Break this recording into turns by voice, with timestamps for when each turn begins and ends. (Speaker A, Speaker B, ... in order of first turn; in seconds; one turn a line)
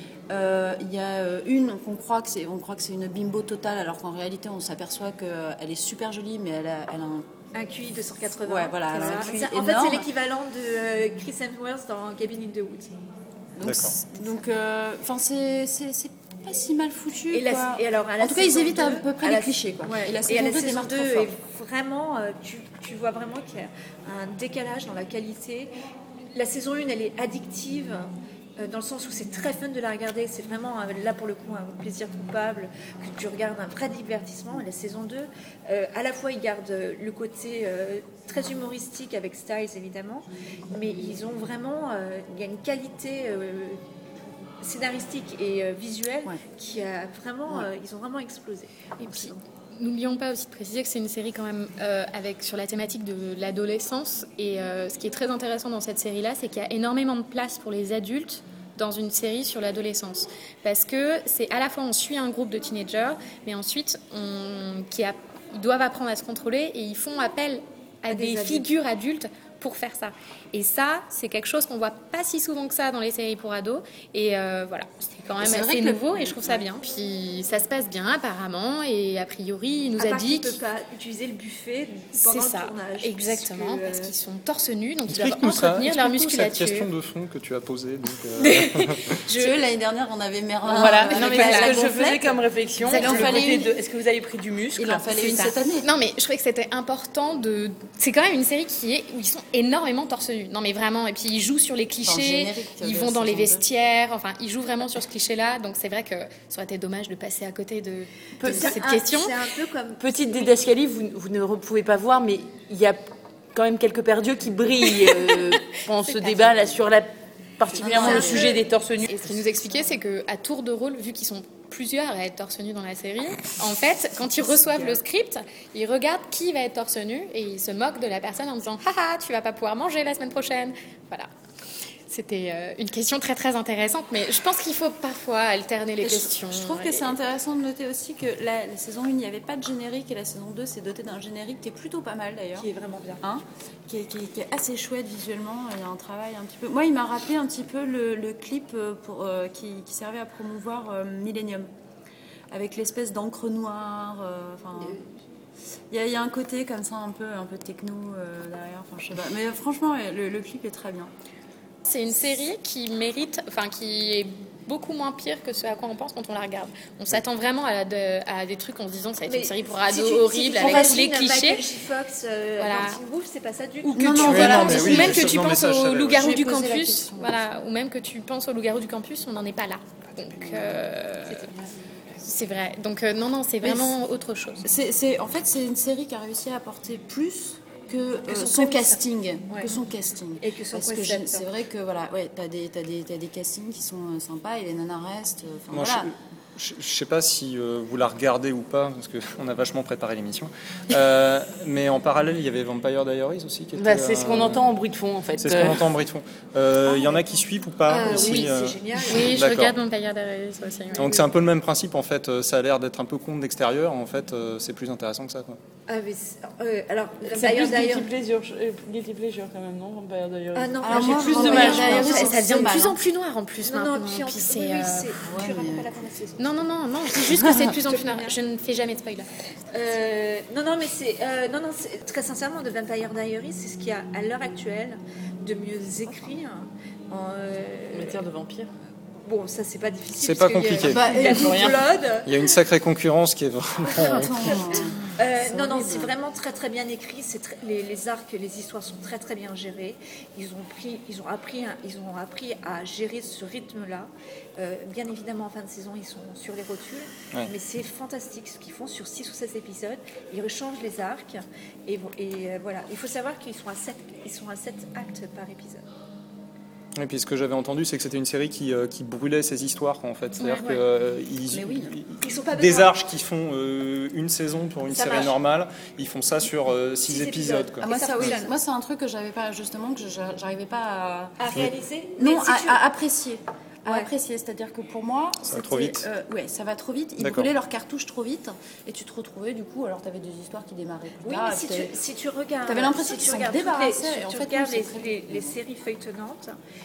Speaker A: 0.3-7.2
Speaker B: 7.5-12.9
Speaker A: 8.4-10.1
Speaker A: 13.5-21.3
Speaker C: 13.6-13.9
Speaker B: 17.3-25.7
Speaker B: 26.3-43.8
Speaker B: 44.6-49.4
Speaker D: 49.0-80.6
Speaker B: 68.1-68.7
Speaker A: 75.4-76.6
Speaker B: 80.0-84.1
Speaker D: 82.1-86.9
Speaker C: 85.1-89.2
Speaker D: 88.4-89.5
Speaker A: 89.3-93.7
Speaker E: 90.7-95.0
Speaker D: 90.9-91.8
Speaker D: 92.8-93.6
Speaker A: 94.8-95.9
Speaker D: 95.1-109.4
Speaker A: 102.0-103.7
Speaker B: 108.4-110.5
Speaker E: 108.4-108.8
Speaker E: 110.0-113.0
Speaker E: 113.5-119.2
Speaker D: 115.1-116.8
Speaker B: 117.8-118.6
Speaker A: 117.8-118.6
Speaker D: 117.9-118.5
Speaker D: 119.1-131.3
Speaker D: 132.1-137.1
Speaker A: 136.0-142.7
Speaker B: 142.6-143.2
Speaker A: 143.2-151.7
Speaker A: 152.5-155.0
Speaker A: 155.9-161.1
Speaker D: 161.8-171.6
Speaker B: 169.3-174.9
Speaker D: 172.6-173.0
Speaker D: 173.8-181.5
Speaker A: 173.9-177.4
Speaker C: 174.2-176.3
Speaker A: 180.4-180.8
Speaker B: 181.3-181.7
Speaker D: 182.2-184.7
Speaker A: 183.6-183.9
Speaker A: 184.6-196.1
Speaker B: 188.3-189.8
Speaker B: 190.4-191.5
Speaker C: 195.7-204.6
Speaker E: 203.8-205.8
Speaker C: 205.4-209.7
Speaker B: 207.9-209.3
Speaker D: 209.1-211.1
Speaker C: 210.9-215.6
Speaker B: 211.0-211.2
Speaker B: 215.9-218.1
Speaker E: 217.2-222.8
Speaker B: 220.5-222.9
Speaker A: 220.8-223.0
Speaker D: 221.1-225.1
Speaker B: 223.6-226.6
Speaker A: 225.2-225.9
Speaker D: 226.4-229.3
Speaker B: 227.7-228.3
Speaker B: 229.7-238.2
Speaker E: 237.9-238.7
Speaker B: 239.2-242.4
Speaker C: 240.1-241.0
Speaker A: 240.8-241.8
Speaker E: 241.0-241.8
Speaker C: 242.2-244.6
Speaker A: 243.9-246.1
Speaker B: 245.2-265.8
Speaker C: 266.9-278.3
Speaker D: 270.4-270.8
Speaker A: 271.5-271.9
Speaker B: 272.2-272.9
Speaker B: 274.9-275.4
Speaker B: 277.1-278.5
Speaker A: 277.8-291.9
Speaker B: 281.4-282.8
Speaker C: 285.5-286.0
Speaker C: 287.2-287.5
Speaker B: 291.2-296.6
Speaker A: 292.6-295.6